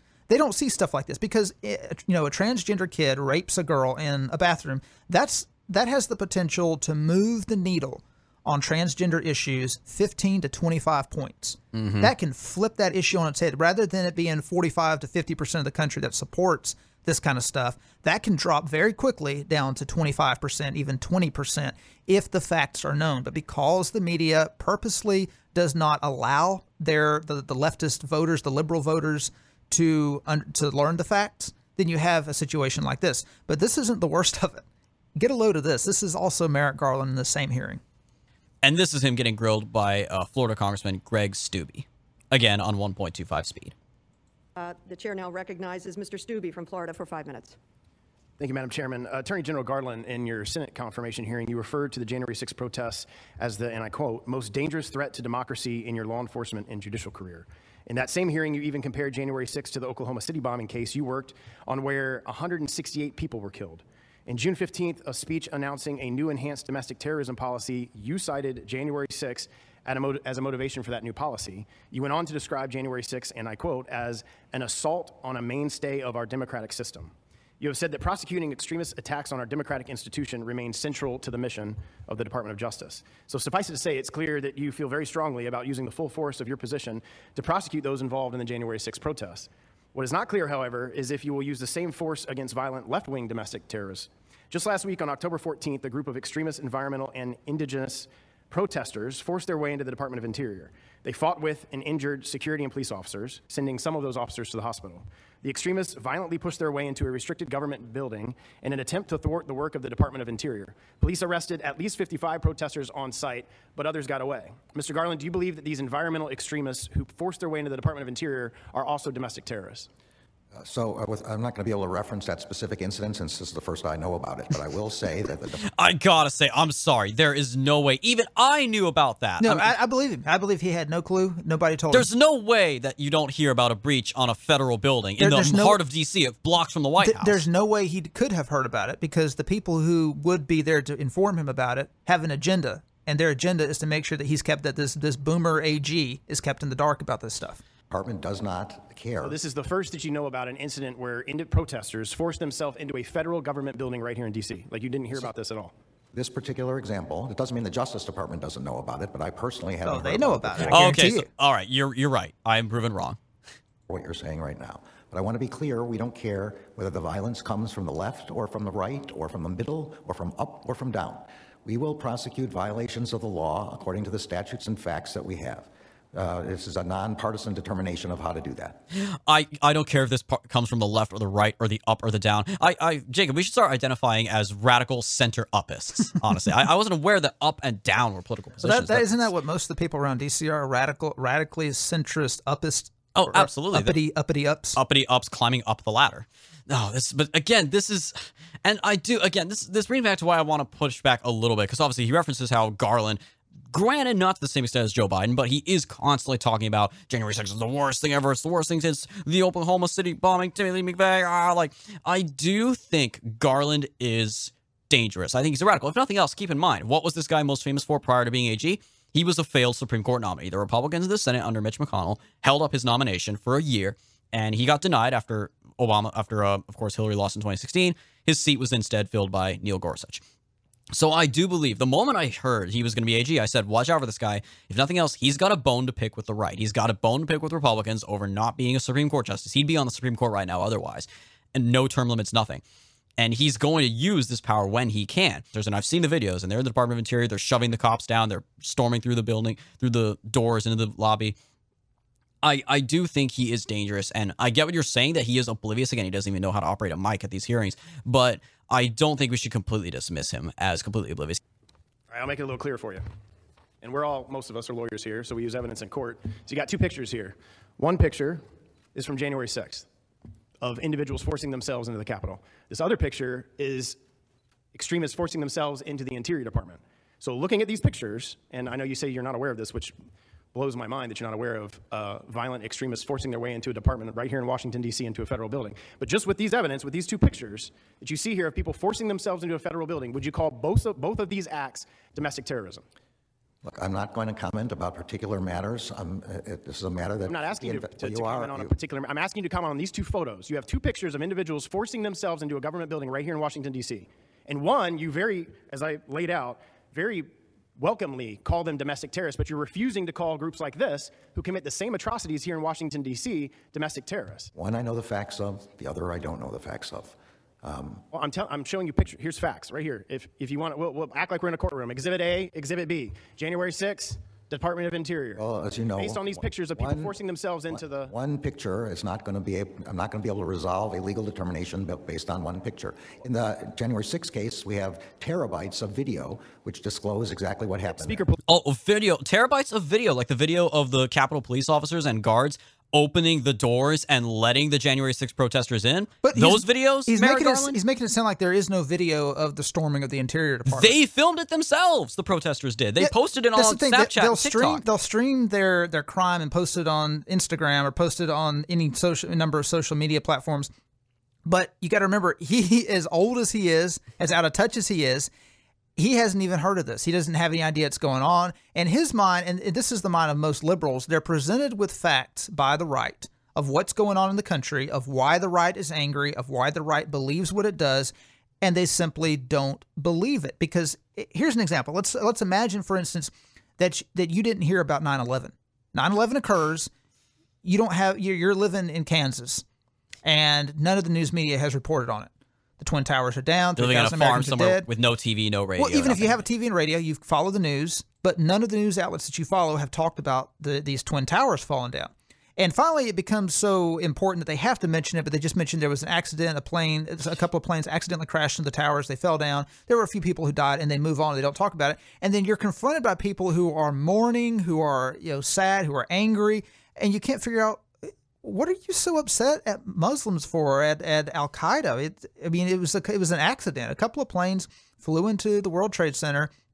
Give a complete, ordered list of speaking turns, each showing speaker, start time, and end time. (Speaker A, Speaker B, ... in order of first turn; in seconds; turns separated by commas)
Speaker A: 0.3-34.6, Speaker B: 11.7-12.1, Speaker A: 35.2-37.8, Speaker B: 38.6-43.7, Speaker C: 44.6-47.5, Speaker D: 48.4-119.9, Speaker E: 120.5-125.7, Speaker B: 125.6-129.7, Speaker A: 129.4-132.1, Speaker B: 131.9-137.4, Speaker A: 135.2-135.8, Speaker A: 137.0-147.6, Speaker E: 147.9-149.4, Speaker D: 149.2-155.7, Speaker E: 156.1-160.9, Speaker A: 159.8-161.3, Speaker B: 160.6-163.2, Speaker E: 163.9-178.8, Speaker B: 178.9-189.3, Speaker A: 188.6-194.8, Speaker B: 193.2-194.0, Speaker B: 194.8-230.2, Speaker B: 230.9-242.6, Speaker B: 243.2-251.3, Speaker B: 252.4-261.4, Speaker D: 262.1-263.1, Speaker D: 263.8-268.4, Speaker D: 268.9-269.9, Speaker D: 270.6-274.0, Speaker D: 274.7-279.9, Speaker D: 280.5-292.9, Speaker E: 293.6-298.7, Speaker D: 297.2-314.5, Speaker E: 314.6-318.0, Speaker D: 318.1-325.4, Speaker E: 325.4-327.1, Speaker D: 326.0-328.1, Speaker E: 327.7-338.3, Speaker D: 337.9-338.4, Speaker B: 338.5-347.8, Speaker A: 346.2-350.9, Speaker B: 350.7-354.8, Speaker A: 353.0-360.7, Speaker A: 361.4-365.3, Speaker A: 366.0-386.9, Speaker A: 387.6-389.6, Speaker A: 390.2-394.9, Speaker B: 393.8-396.4, Speaker A: 395.8-426.5